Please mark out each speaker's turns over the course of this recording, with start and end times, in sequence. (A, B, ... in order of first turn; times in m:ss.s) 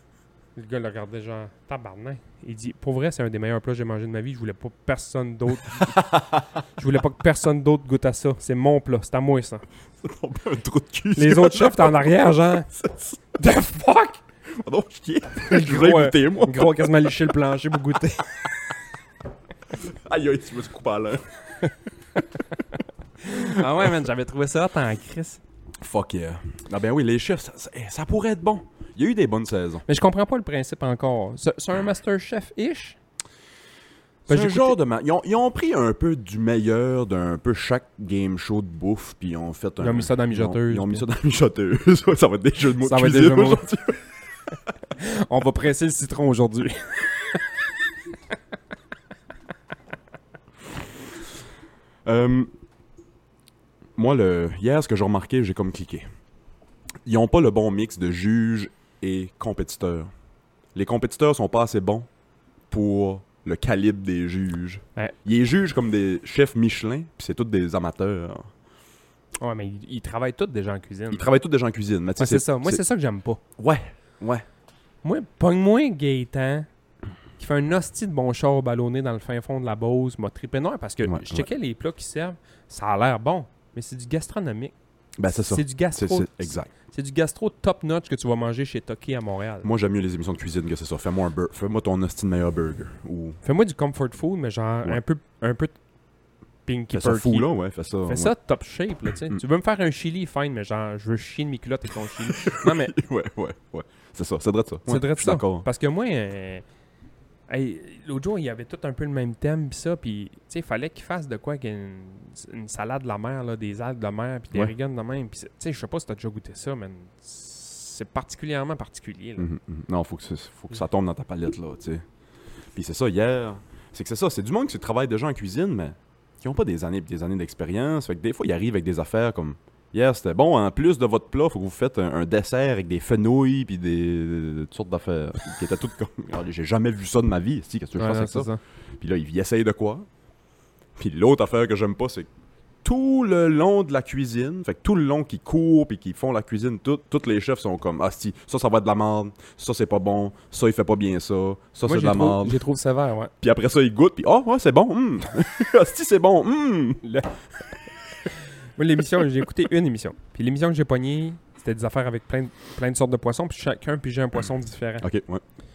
0:00.6-0:06.0 A
0:05.8-0:06.4 B
0:06.8-0:09.6 A
0:10.0-0:12.1 B
0:11.1-0:12.7 A
0:12.7-0:13.2 B
0:13.4-0:14.2 A
0:14.5-0:16.9 B
0:15.4-0:18.3 A
0:19.7-0:21.2 B
0:23.2-0:25.4 A
0:23.3-0:23.6 B
0:25.8-0:29.8 B
0:29.9-0:33.0 A
0:34.2-0:44.0 B
0:34.3-0:34.7 A
0:39.8-0:41.0 A
0:42.8-0:43.6 A
0:44.9-0:47.4 A
0:52.0-0:52.5 B
0:54.0-0:56.0 B
0:57.0-1:00.1 B
1:00.7-1:02.1 B
1:02.7-1:08.5 B
1:09.4-1:11.2 A
1:11.1-1:12.8 B
1:12.2-1:13.4 A
1:13.6-1:14.4 B
1:15.0-1:16.7 A
1:17.4-1:24.7 A
1:21.0-1:21.5 B
1:25.2-1:26.7 B
1:25.3-1:29.7 A
1:29.6-1:33.4 B
1:33.4-1:35.8 A
1:36.6-1:37.5 A
1:36.9-1:38.3 B
1:38.0-1:42.9 A
1:42.2-1:45.6 B
1:44.9-1:46.6 A
1:47.5-1:59.5 A
1:59.4-2:02.0 B
2:02.7-2:20.1 B
2:18.0-2:18.6 A
2:21.0-2:22.3 B
2:22.8-2:32.6 B
2:31.8-2:33.3 A
2:33.4-2:37.0 B
2:38.8-2:45.1 A
2:45.0-2:45.4 B